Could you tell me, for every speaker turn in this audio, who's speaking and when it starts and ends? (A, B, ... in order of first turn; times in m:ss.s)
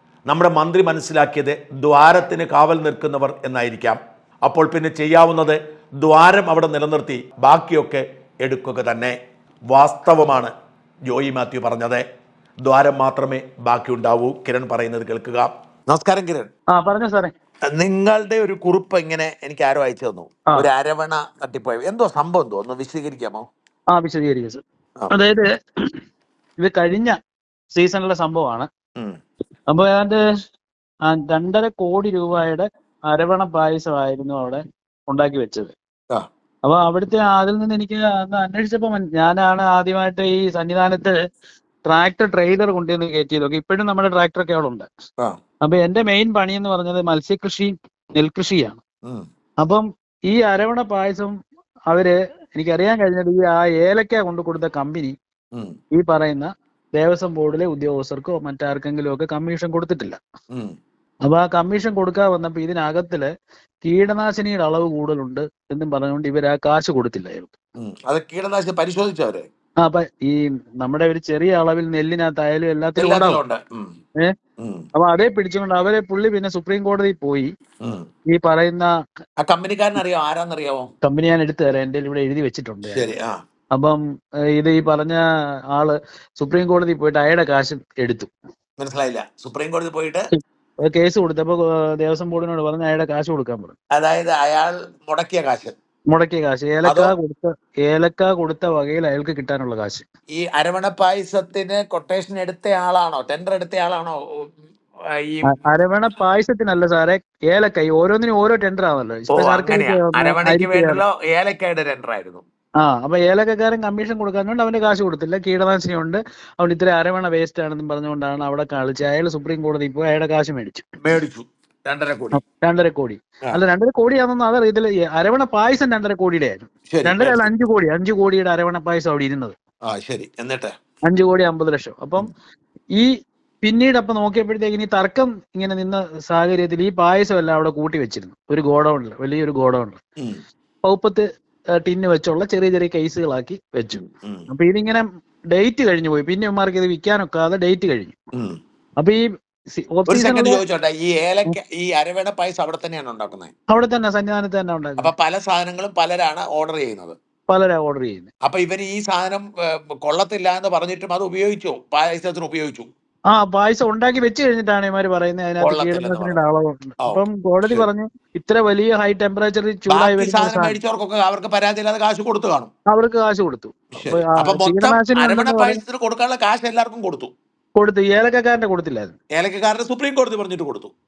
0:00.3-0:09.2 A
0:09.7-0:10.5 A
0:11.1-0:12.0 A
0:12.6-0:16.5 A
0:16.7-0:17.3 B
0:17.7-0:23.5 A
0:23.9-0:26.0 B
0:26.6-0:27.2 B
0:27.7-0:28.7 B
0:29.7-0:30.2 B
0:31.1-0:35.8 B
0:36.6-0:41.2 B
0:41.9-0:44.9 B
0:45.6-0:48.8 B
0:49.6-0:51.3 B
0:51.9-0:55.2 B
0:56.0-1:00.2 B
1:01.2-1:03.3 B
1:03.8-1:07.5 B
1:07.8-1:09.5 A
1:09.8-1:13.4 B
1:13.0-1:13.9 A
1:14.6-1:14.9 A
1:15.0-1:17.5 B
1:18.3-1:18.9 B
1:19.4-1:20.9 A
1:21.0-1:23.1 B
1:22.9-1:23.4 A
1:23.7-1:24.0 B
1:24.6-1:25.2 B
1:25.7-1:28.3 B
1:28.8-1:30.3 A
1:30.8-1:33.8 B
1:33.9-1:35.8 A
1:36.1-1:40.0 B
1:36.8-1:37.1 A
1:40.4-1:44.2 A
1:45.2-1:45.5 A
1:45.5-1:51.0 B
1:49.3-1:52.4 A
1:52.8-2:00.8 B
2:01.0-2:02.4 A
2:02.3-2:09.5 B
2:06.9-2:07.5 A
2:09.9-2:10.8 A
2:11.1-2:12.3 B
2:13.6-2:20.0 B
2:20.8-2:21.2 B
2:21.8-2:28.2 B
2:29.8-2:30.6 B
2:30.1-2:33.5 A
2:33.7-2:35.1 B
2:35.0-2:37.2 A
2:37.5-2:38.3 B
2:38.4-2:42.9 A
2:43.3-2:50.8 B
2:45.6-2:46.4 A
2:47.0-2:47.8 A
2:49.9-2:52.7 A
2:52.9-2:55.8 B
2:54.0-2:57.3 A
2:57.8-2:59.2 B
2:59.3-3:00.9 A